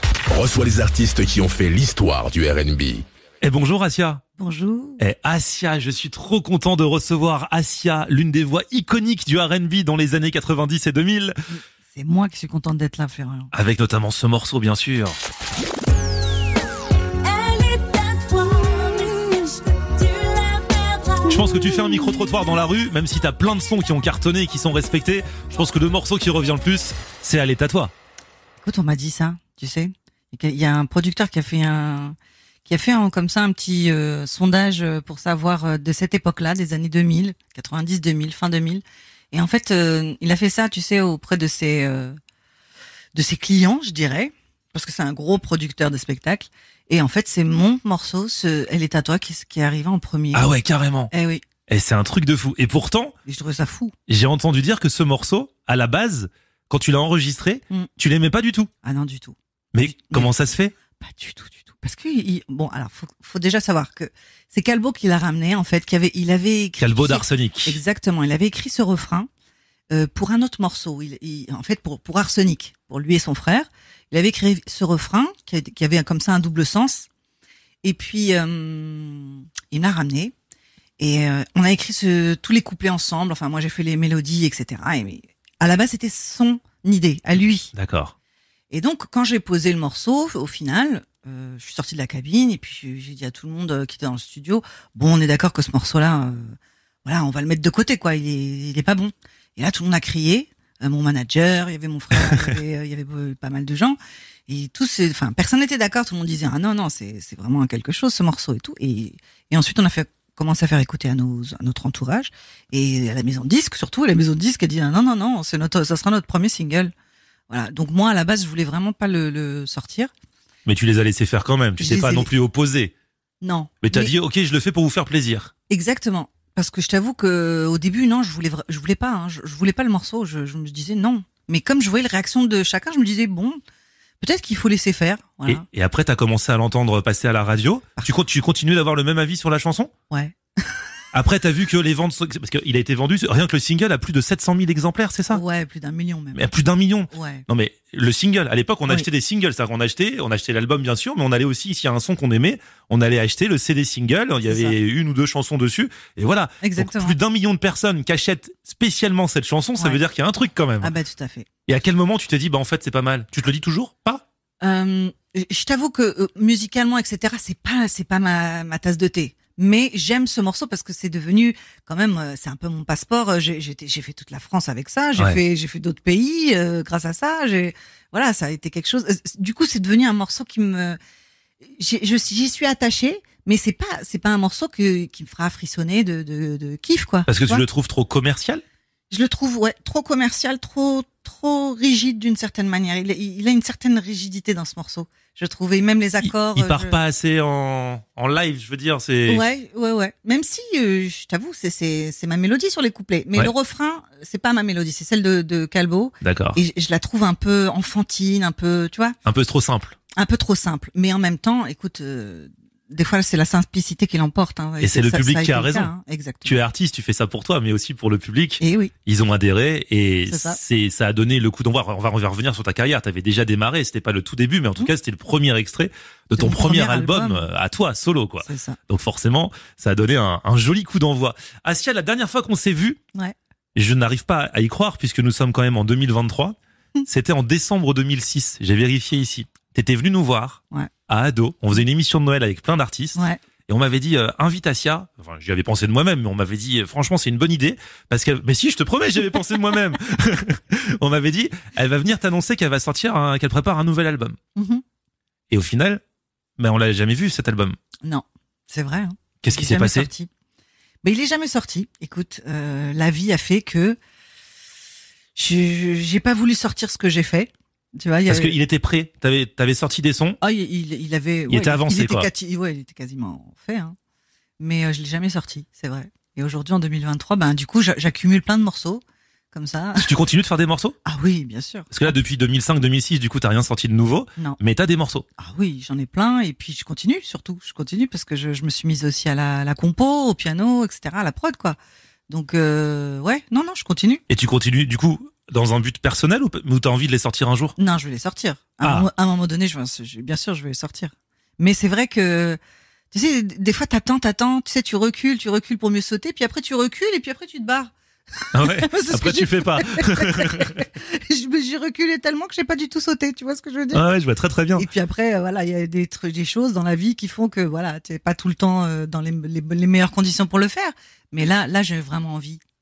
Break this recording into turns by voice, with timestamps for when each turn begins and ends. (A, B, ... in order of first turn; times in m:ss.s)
0:00.3-0:03.0 A
0:03.4-0:04.2 B
0:04.4-0:05.0 C
0:05.0-0:11.4 B
0:11.5-0:13.5 C
0:13.5-0:15.2 B
0:17.2-0:21.4 D
0:21.3-0:27.9 B
0:28.6-0:42.2 C
0:43.1-0:50.5 C
0:50.3-0:51.1 B
0:51.1-0:51.4 C
0:51.7-0:53.1 B
0:53.2-0:53.9 C
0:54.1-0:58.7 B
0:58.8-1:00.3 C
0:59.7-1:00.7 B
1:01.0-1:09.3 C
1:06.8-1:07.8 B
1:09.9-1:17.1 C
1:17.8-1:20.3 C
1:21.0-1:27.7 C
1:27.7-1:28.1 B
1:28.7-1:44.0 C
1:42.3-1:42.5 B
1:44.5-1:56.9 C
1:57.5-2:00.1 C
2:00.6-2:02.9 B
2:01.8-2:02.3 C
2:03.4-2:04.1 C
2:03.8-2:05.5 B
2:05.7-2:13.6 C
2:14.2-2:15.6 C
2:15.4-2:19.9 B
2:20.1-2:20.7 C
2:21.1-2:25.4 B
2:25.3-2:26.4 C
2:26.3-2:40.9 B
2:27.1-2:27.4 C
2:34.5-2:34.8 C
2:36.6-2:37.2 C
2:40.8-2:41.5 C
2:41.7-2:44.2 B
2:44.6-3:01.0 C
3:01.6-3:07.6 C
3:07.3-3:08.6 B
3:09.1-3:17.0 C
3:16.2-3:19.4 B
3:19.3-3:29.2 C
3:26.2-3:26.6 B
3:29.2-3:30.0 B
3:30.2-3:36.6 C
3:34.8-3:35.9 B
3:36.4-3:53.0 B
3:38.6-3:38.9 C
3:40.3-3:40.6 C
3:46.4-3:47.4 C
3:48.4-3:48.8 C
3:53.7-4:14.4 B
4:14.6-4:14.8 C
4:15.5-4:16.0 B
4:16.6-4:17.8 B
4:18.0-4:20.3 C
4:19.4-4:20.1 B
4:21.0-4:24.0 C
4:25.4-4:28.5 C
4:28.3-4:30.4 B
4:30.4-4:34.0 C
4:31.5-4:32.3 B
4:34.6-4:40.1 C
4:40.0-4:41.0 B
4:41.0-4:42.1 C
4:41.9-4:45.2 B
4:45.4-4:51.8 C
4:52.3-4:54.2 C
4:54.3-4:57.7 B
4:57.8-5:02.6 C
4:58.8-4:59.1 B
5:03.1-5:14.0 C
5:08.5-5:10.8 B
5:13.9-5:14.9 B
5:14.8-5:22.6 C